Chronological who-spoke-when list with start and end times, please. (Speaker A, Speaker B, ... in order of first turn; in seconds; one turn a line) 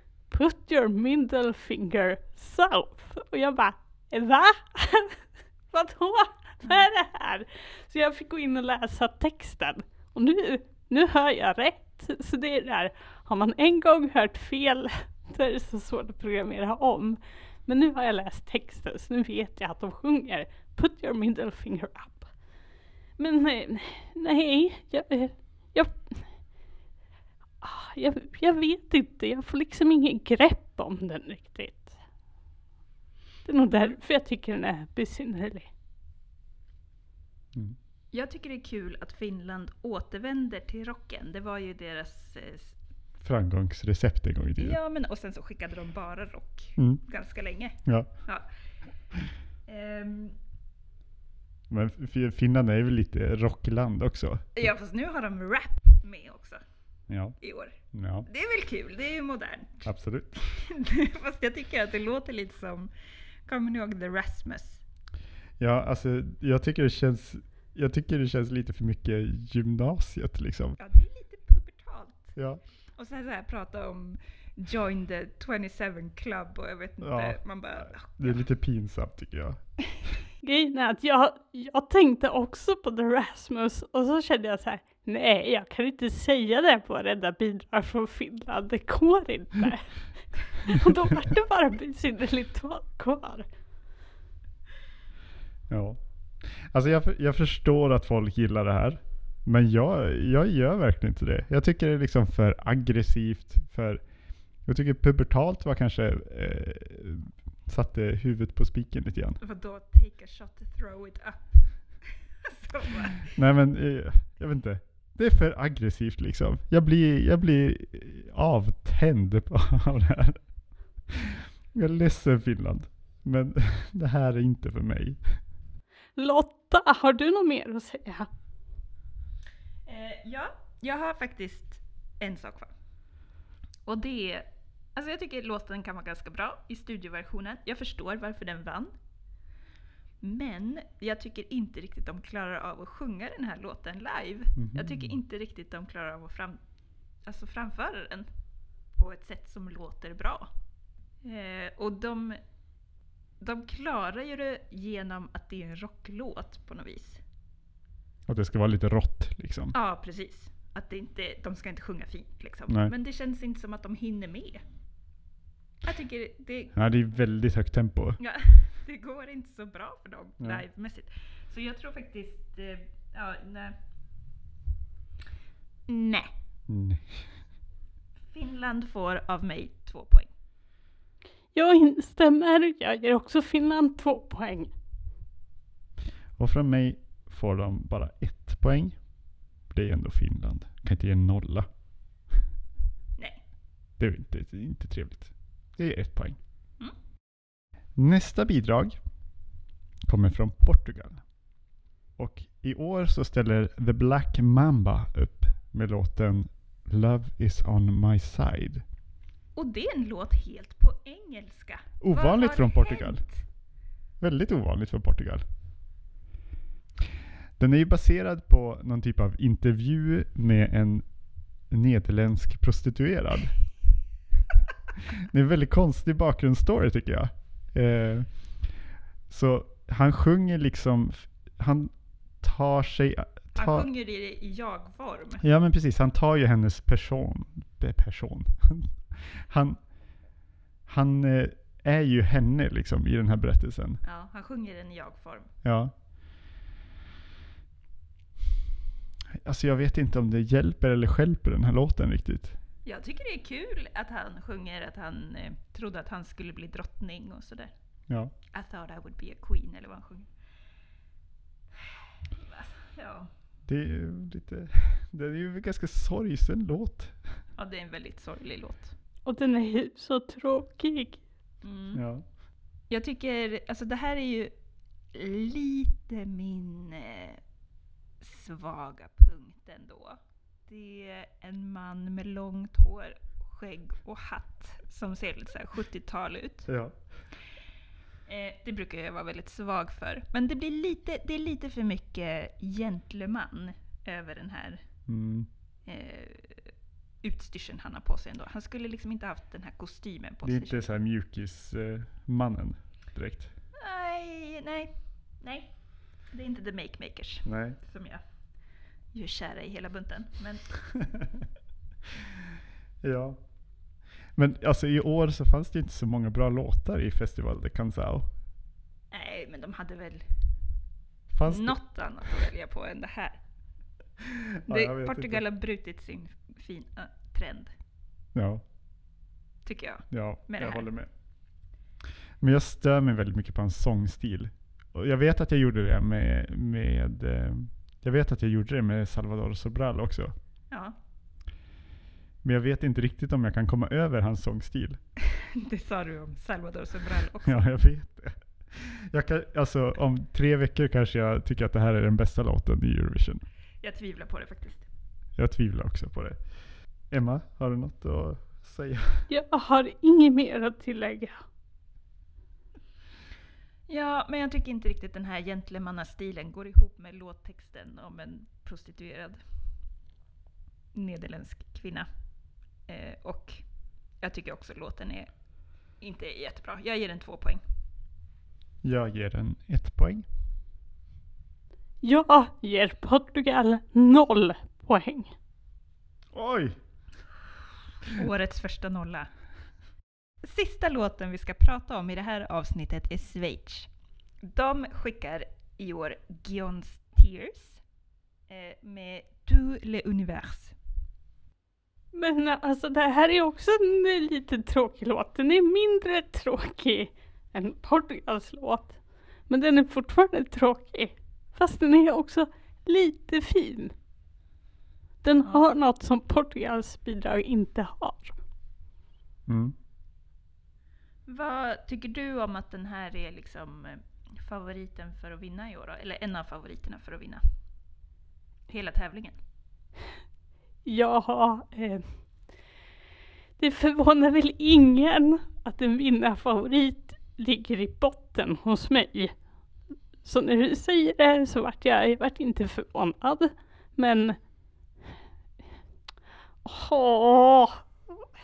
Speaker A: 0.3-22.4
Speaker A: 23.2-26.5
Speaker A: 27.6-32.0
Speaker A: 33.4-35.7
Speaker B: 38.1-42.8
Speaker C: 43.2-44.8
Speaker B: 44.6-48.5
Speaker C: 46.8-47.0
Speaker C: 47.8-48.1
Speaker B: 49.6-50.4
Speaker C: 51.7-54.7
Speaker B: 54.5-56.6
Speaker C: 57.1-58.3
Speaker B: 57.4-62.9
Speaker C: 59.8-60.4
Speaker B: 63.5-64.8
Speaker C: 65.6-70.8
Speaker B: 70.8-72.3
Speaker C: 72.3-72.6
Speaker B: 73.0-78.4
Speaker C: 77.0-80.1
Speaker A: 80.4-93.5
Speaker C: 95.7-104.1
Speaker C: 104.6-109.4
Speaker B: 109.4-113.3
Speaker C: 113.3-120.5
Speaker C: 121.1-125.4
Speaker A: 126.2-128.3
Speaker B: 129.8-132.7
Speaker B: 133.8-138.9
Speaker B: 140.2-146.6
Speaker C: 144.6-145.2
Speaker B: 147.2-148.3
Speaker B: 148.9-150.5
Speaker B: 151.2-152.4
Speaker B: 153.4-157.2
Speaker C: 158.3-159.8
Speaker B: 159.7-164.6
Speaker B: 165.8-166.8
Speaker C: 166.7-168.2
Speaker B: 168.2-173.8
Speaker C: 170.4-170.6
Speaker B: 175.9-176.3
Speaker C: 176.7-177.4
Speaker B: 178.3-180.3
Speaker A: 181.5-184.7
Speaker C: 186.4-189.0
Speaker C: 189.7-191.7
Speaker C: 194.0-196.4
Speaker C: 197.9-199.0
Speaker C: 200.0-201.2
Speaker C: 202.2-208.8
Speaker B: 209.5-213.4
Speaker C: 212.0-213.2
Speaker C: 214.2-215.4
Speaker C: 217.6-224.0
Speaker C: 225.1-228.8
Speaker C: 229.3-233.9
Speaker B: 233.5-235.4
Speaker C: 235.4-239.9
Speaker C: 240.8-244.0
Speaker B: 244.0-245.5
Speaker C: 245.6-245.9
Speaker C: 249.4-252.6
Speaker B: 252.8-257.7
Speaker C: 258.1-258.3
Speaker B: 258.5-260.3
Speaker B: 261.8-263.3
Speaker C: 263.6-267.4
Speaker B: 267.6-268.9
Speaker A: 269.2-271.2
Speaker B: 271.6-272.0
Speaker C: 271.9-272.2
Speaker B: 272.9-274.5
Speaker B: 275.1-277.4
Speaker B: 278.2-287.0
Speaker C: 286.6-287.2
Speaker B: 288.3-294.9
Speaker C: 295.1-295.5
Speaker B: 295.9-300.8
Speaker C: 300.4-303.5
Speaker B: 303.8-311.2
Speaker C: 307.4-307.8
Speaker C: 313.0-313.5
Speaker C: 314.3-318.3
Speaker B: 319.1-320.7
Speaker C: 321.3-321.8
Speaker B: 321.4-323.4
Speaker C: 324.6-325.4
Speaker B: 324.7-327.7
Speaker C: 328.3-328.6
Speaker B: 329.6-330.9
Speaker C: 330.1-331.1
Speaker C: 332.4-340.3
Speaker C: 342.4-345.0
Speaker B: 345.4-347.6
Speaker C: 347.4-353.4
Speaker B: 353.8-354.9
Speaker C: 355.4-359.3
Speaker A: 359.3-361.4
Speaker B: 363.9-369.4
Speaker B: 370.9-372.1
Speaker B: 372.8-373.6
Speaker B: 374.2-375.3
Speaker B: 375.9-377.6
Speaker C: 378.8-380.3
Speaker A: 382.0-385.3
Speaker C: 386.3-386.8
Speaker B: 388.0-389.3
Speaker B: 390.4-393.9
Speaker B: 394.4-397.8
Speaker B: 398.5-400.8
Speaker A: 402.1-413.9
Speaker A: 415.2-418.4
Speaker C: 419.5-419.7
Speaker B: 421.2-427.4
Speaker B: 428.7-429.4
Speaker A: 430.8-432.4
Speaker A: 433.6-439.4
Speaker A: 440.2-444.5
Speaker A: 446.6-447.8